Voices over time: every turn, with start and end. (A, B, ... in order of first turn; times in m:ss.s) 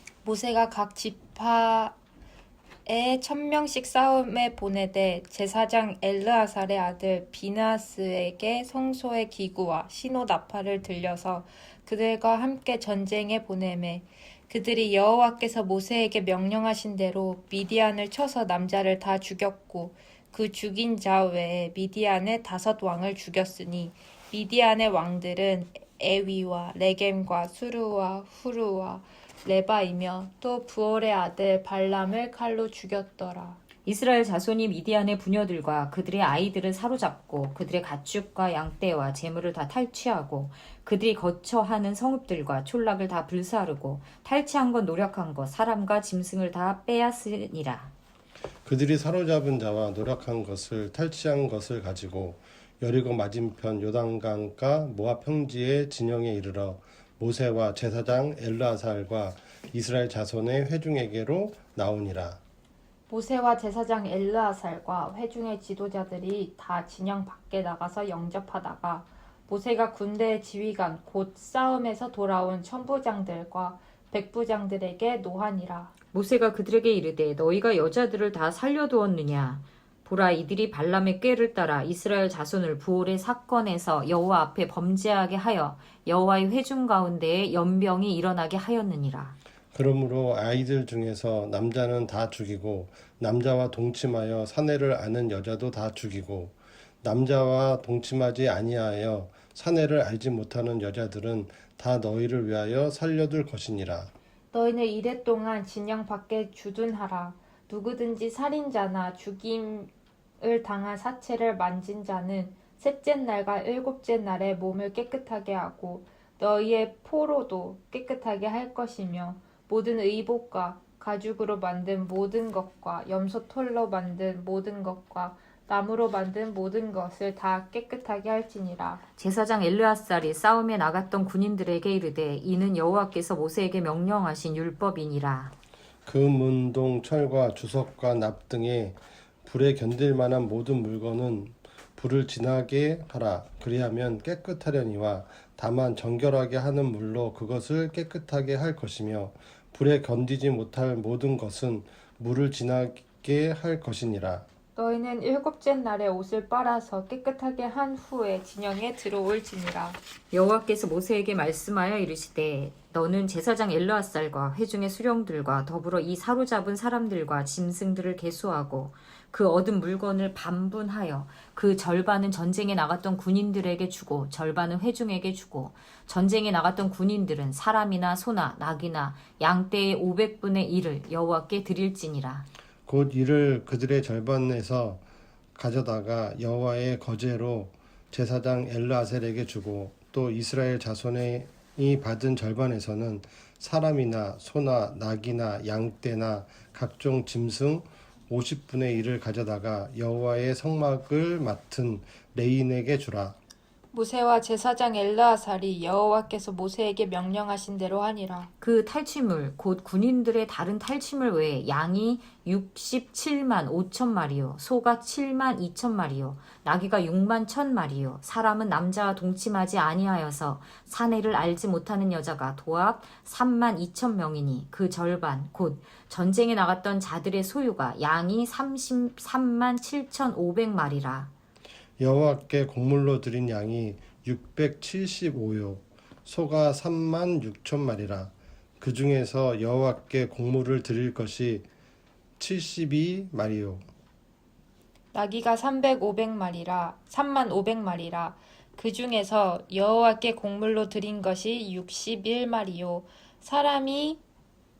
0:00.2-0:01.9 A
0:02.8-0:33.6 A
0:33.8-0:47.9 B
0:48.6-1:02.4 C
1:03.1-1:15.9 A
1:16.1-1:29.4 B
1:29.7-1:44.1 C
1:44.5-1:49.9 A
1:50.4-2:09.0 A
2:09.2-2:15.5 B
2:16.0-2:34.4 C
2:34.8-2:40.0 A
2:40.3-3:02.5 B
3:02.9-3:05.0 C
3:05.6-3:23.4 C
3:23.9-3:28.5 A
3:28.6-3:51.3 B
3:52.0-4:01.7 C
4:02.4-4:03.8 C
4:05.1-4:14.2 A